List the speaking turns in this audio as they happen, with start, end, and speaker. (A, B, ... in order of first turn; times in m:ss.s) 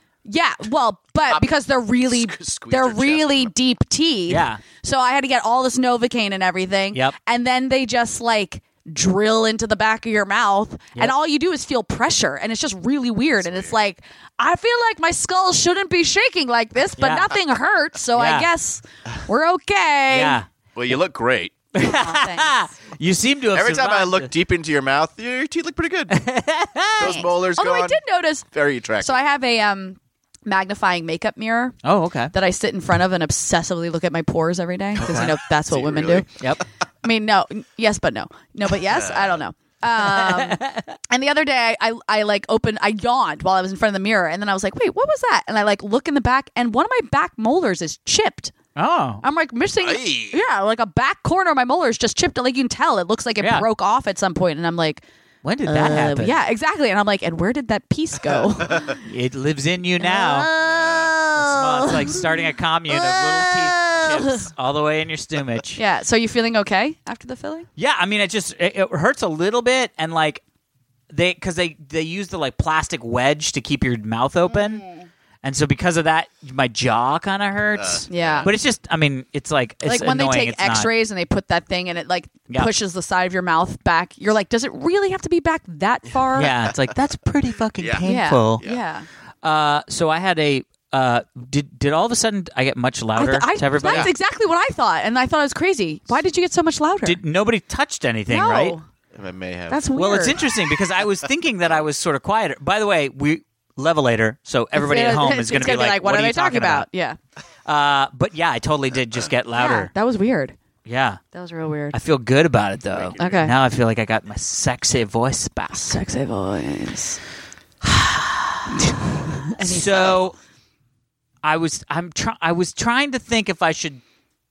0:00.3-0:20.4 A
0:02.1-0:03.5 B
0:04.3-0:04.6 C
0:13.4-0:13.8 B
0:17.0-0:17.3 C
0:18.2-0:18.5 C
0:20.1-0:20.5 C
0:20.7-0:21.5 B
0:21.7-0:22.5 A
0:21.7-0:24.3 C
0:23.5-0:26.2 B
0:26.1-0:27.1 C
0:26.9-0:29.2 B
0:27.0-0:28.4 A
0:29.0-0:31.8 A
0:31.8-0:32.3 C
0:32.3-0:36.2 A
0:35.0-0:36.3 B
0:36.4-0:36.6 C
0:37.0-0:48.5 A
0:38.8-0:39.4 B
0:40.0-0:41.0 C
0:48.8-0:49.2 C
0:49.2-0:55.0 A
0:49.8-0:50.4 B
0:53.4-0:53.7 C
0:55.4-0:56.4 C
0:55.6-0:59.1 A
0:58.3-0:59.0 B
0:59.0-1:00.5 C
1:00.0-1:04.5 A
1:00.6-1:01.1 B
1:01.3-1:05.8 C
1:05.8-1:07.7 A
1:07.8-1:10.4 C
1:11.1-1:14.8 C
1:15.4-1:20.9 C
1:17.8-1:18.5 B
1:18.1-1:18.5 A
1:19.8-1:26.5 A
1:26.2-1:26.7 B
1:26.3-1:28.6 C
1:27.8-1:28.0 B
1:28.0-1:29.0 A
1:29.4-1:34.1 C
1:33.1-1:37.2 A
1:33.8-1:34.1 B
1:37.0-1:38.8 C
1:38.3-1:38.8 A
1:39.1-1:39.8 B
1:39.7-1:40.4 A
1:40.0-1:46.8 C
1:44.7-1:47.2 A
1:47.6-1:49.9 C
1:49.5-1:50.5 A
1:50.8-1:51.2 C
1:51.3-1:52.0 A
1:51.9-1:56.0 C
1:52.9-1:53.5 B
1:53.2-1:53.5 A
1:55.7-1:57.2 A
1:57.8-1:58.6 C
1:58.8-2:00.2 A
1:59.6-2:00.3 C
2:01.4-2:04.0 C